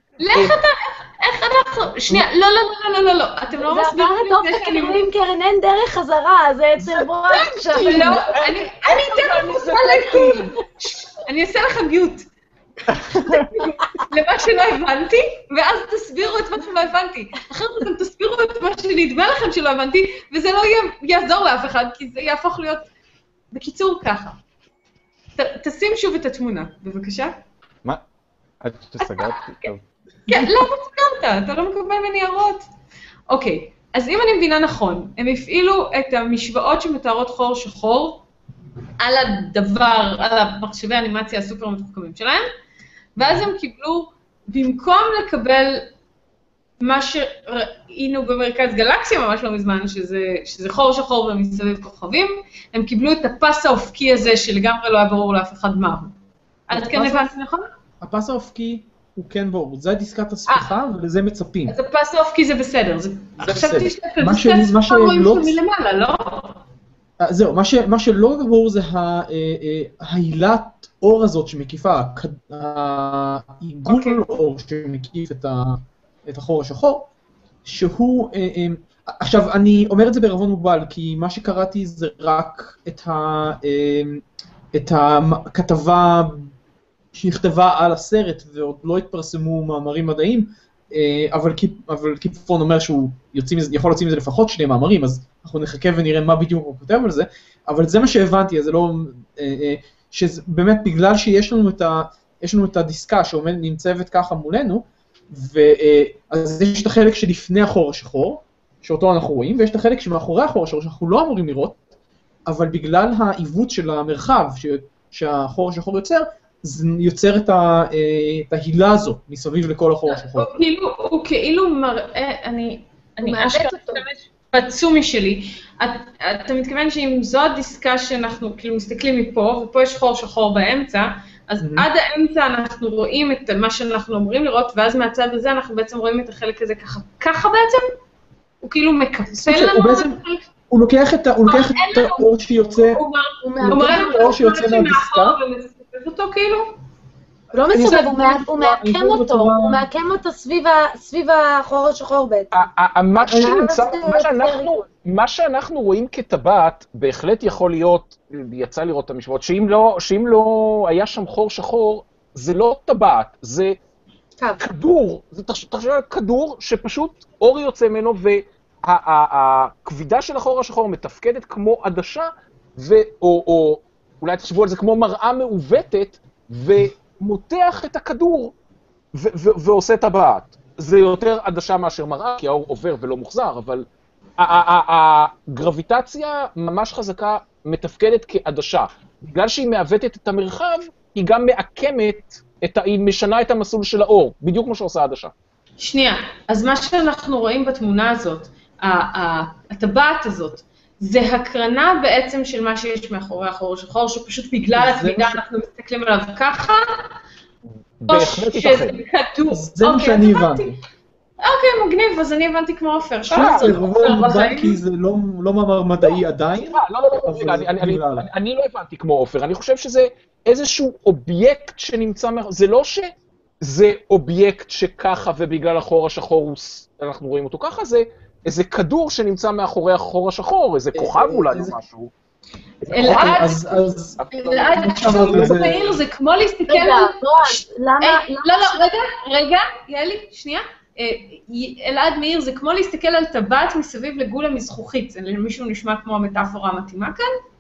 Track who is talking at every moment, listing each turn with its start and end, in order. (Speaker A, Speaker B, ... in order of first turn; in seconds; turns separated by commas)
Speaker A: 0.2-5.0, Speaker B: 3.6-8.2, Speaker A: 7.3-12.2, Speaker C: 7.7-10.6, Speaker A: 13.3-22.9, Speaker A: 23.5-24.4, Speaker A: 25.4-27.3, Speaker D: 28.6-29.8, Speaker A: 29.0-29.5, Speaker A: 30.3-32.7, Speaker A: 33.3-38.2, Speaker A: 39.0-42.5, Speaker A: 43.2-45.9, Speaker A: 46.8-56.1, Speaker E: 56.7-57.3, Speaker A: 56.7-57.7, Speaker E: 58.0-61.8, Speaker A: 61.7-66.6, Speaker E: 63.4-65.6, Speaker E: 67.2-77.1, Speaker A: 73.9-74.2, Speaker E: 77.7-86.5, Speaker E: 87.1-111.8, Speaker E: 112.5-120.5, Speaker A: 120.1-137.8, Speaker B: 123.2-124.0, Speaker E: 131.6-131.9, Speaker A: 138.6-140.5, Speaker E: 139.3-143.0, Speaker A: 141.5-146.7, Speaker B: 143.4-144.3, Speaker E: 143.7-145.4, Speaker B: 147.5-152.6, Speaker E: 147.7-149.8, Speaker A: 147.7-148.2, Speaker C: 152.5-163.8, Speaker B: 153.2-154.8, Speaker C: 164.6-178.5, Speaker C: 179.1-183.9, Speaker C: 184.4-195.3, Speaker A: 195.8-206.8, Speaker E: 204.7-205.4, Speaker D: 208.0-208.9, Speaker C: 208.1-208.9, Speaker A: 208.1-210.7, Speaker E: 209.5-210.8, Speaker A: 211.4-214.8, Speaker E: 213.3-218.3, Speaker C: 213.3-213.8, Speaker C: 216.0-232.1, Speaker E: 230.9-231.8, Speaker E: 232.8-234.2, Speaker A: 232.9-233.8, Speaker C: 234.2-235.6, Speaker A: 234.3-247.3, Speaker E: 234.7-236.0, Speaker B: 236.7-238.9